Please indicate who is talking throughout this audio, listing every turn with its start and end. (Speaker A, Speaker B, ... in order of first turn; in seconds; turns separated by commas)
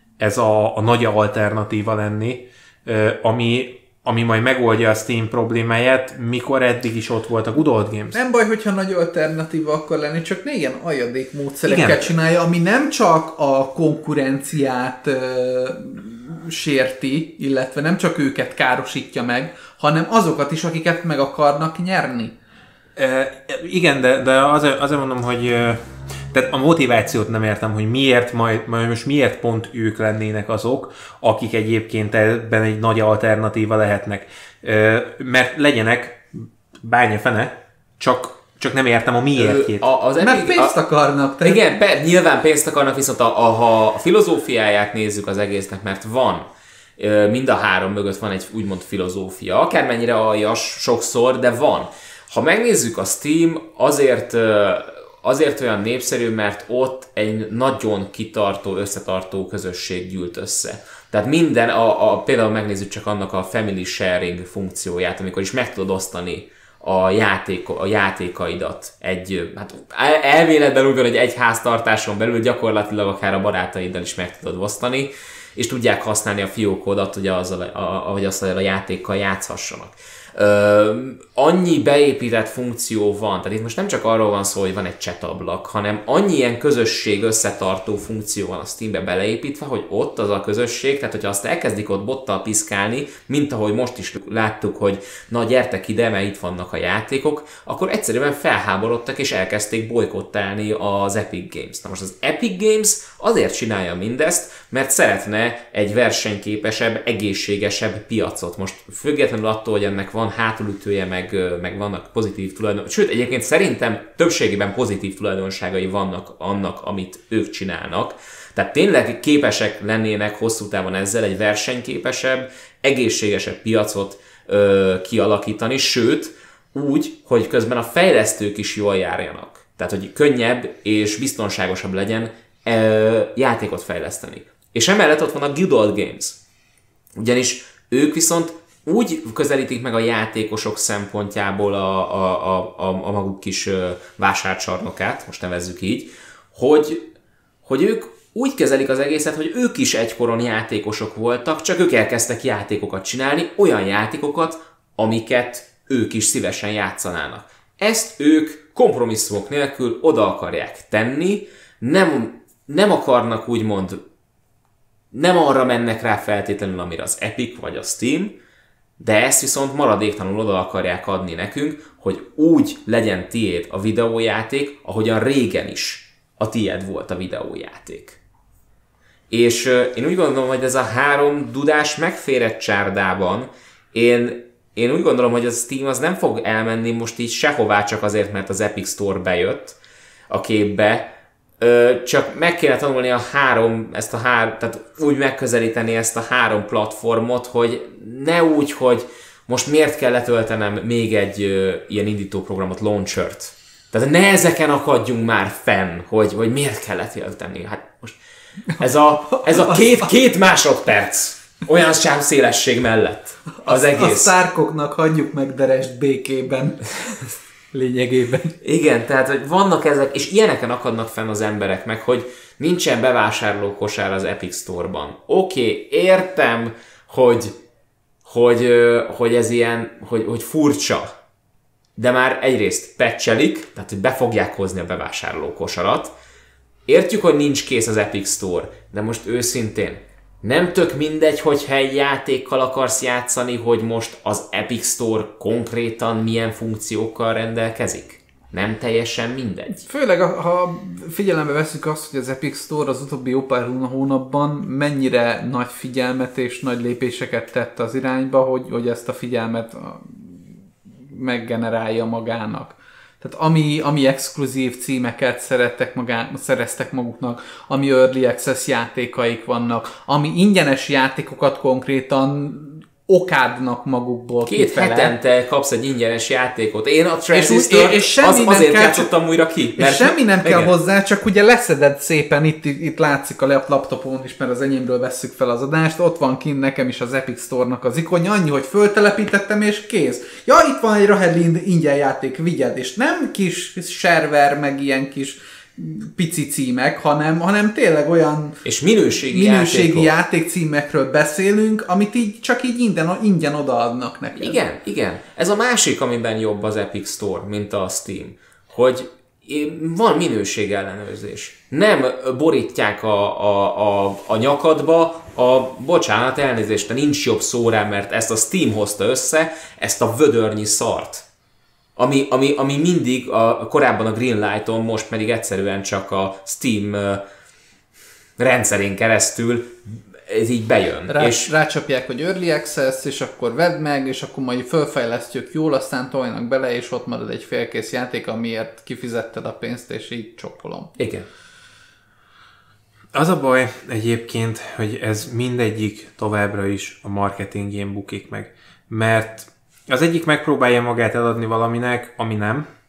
Speaker A: 0.2-8.2, Speaker B: 8.1-22.4, Speaker A: 11.6-12.1, Speaker A: 22.9-25.8, Speaker A: 26.3-39.8, Speaker C: 39.3-40.8, Speaker B: 40.2-41.7, Speaker C: 41.4-46.5, Speaker C: 47.0-136.4, Speaker C: 137.2-147.1, Speaker C: 147.6-164.0, Speaker C: 165.1-168.4, Speaker C: 169.0-178.2, Speaker C: 179.3-189.8, Speaker C: 190.3-208.2, Speaker C: 208.8-214.3, Speaker B: 209.4-209.9, Speaker B: 213.6-218.5, Speaker C: 218.6-227.5, Speaker C: 228.2-231.1, Speaker C: 232.0-236.1, Speaker C: 236.9-249.8, Speaker B: 249.8-260.4, Speaker B: 261.1-275.1, Speaker C: 274.4-280.7, Speaker B: 277.3-279.1, Speaker B: 279.8-298.6, Speaker C: 298.6-300.1, Speaker B: 299.2-304.6, Speaker C: 304.4-321.2, Speaker C: 322.0-327.2, Speaker C: 328.4-331.5, Speaker B: 331.1-340.9, Speaker C: 341.0-341.2, Speaker A: 343.1-352.7